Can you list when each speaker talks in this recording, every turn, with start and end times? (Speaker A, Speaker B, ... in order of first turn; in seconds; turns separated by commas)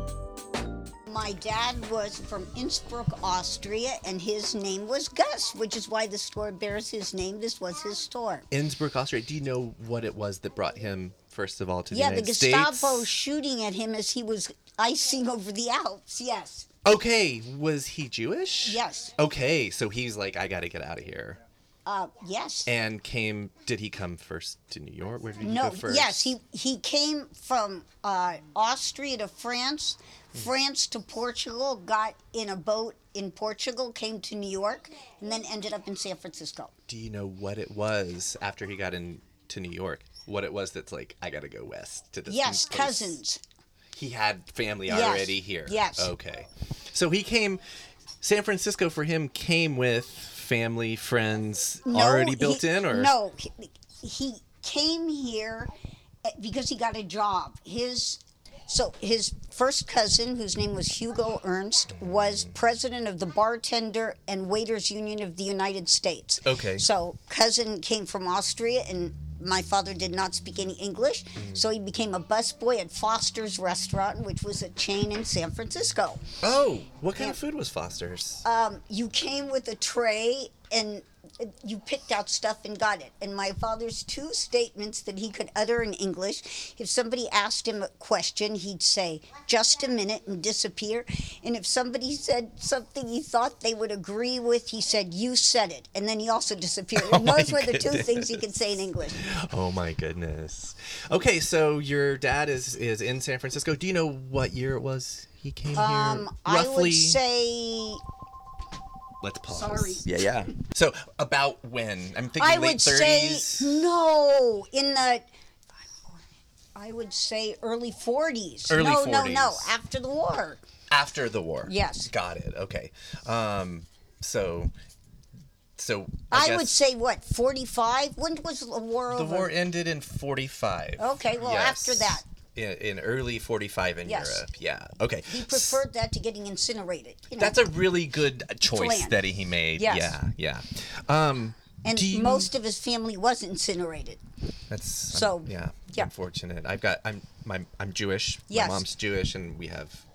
Speaker A: 1.1-8.4, Speaker B: 8.5-13.1, Speaker A: 11.9-16.7, Speaker B: 16.8-21.4, Speaker A: 18.6-19.1, Speaker A: 21.9-22.7, Speaker B: 22.6-26.3, Speaker A: 25.4-36.7, Speaker B: 36.9-43.2, Speaker A: 42.3-43.4, Speaker B: 43.9-47.6, Speaker A: 44.9-46.1, Speaker B: 48.2-53.1, Speaker A: 51.9-55.7, Speaker A: 56.2-76.2, Speaker B: 61.9-62.5, Speaker B: 66.4-66.8, Speaker B: 71.3-71.6, Speaker B: 76.4-78.4, Speaker A: 78.4-99.2, Speaker B: 96.9-98.4, Speaker B: 99.2-107.2, Speaker A: 105.8-108.0, Speaker B: 109.2-113.8, Speaker A: 109.5-110.5, Speaker A: 112.4-115.3, Speaker A: 115.8-116.2, Speaker A: 116.7-120.6, Speaker B: 118.7-119.7, Speaker B: 120.9-124.7, Speaker A: 121.7-122.1, Speaker B: 125.8-126.8, Speaker A: 126.3-129.5, Speaker B: 129.1-135.8, Speaker A: 131.0-132.2, Speaker A: 134.0-134.4, Speaker A: 135.3-137.6, Speaker B: 137.4-142.5, Speaker A: 138.6-139.2, Speaker A: 139.8-140.2, Speaker A: 141.8-144.2, Speaker B: 144.7-150.1, Speaker A: 145.1-146.1, Speaker A: 148.5-148.8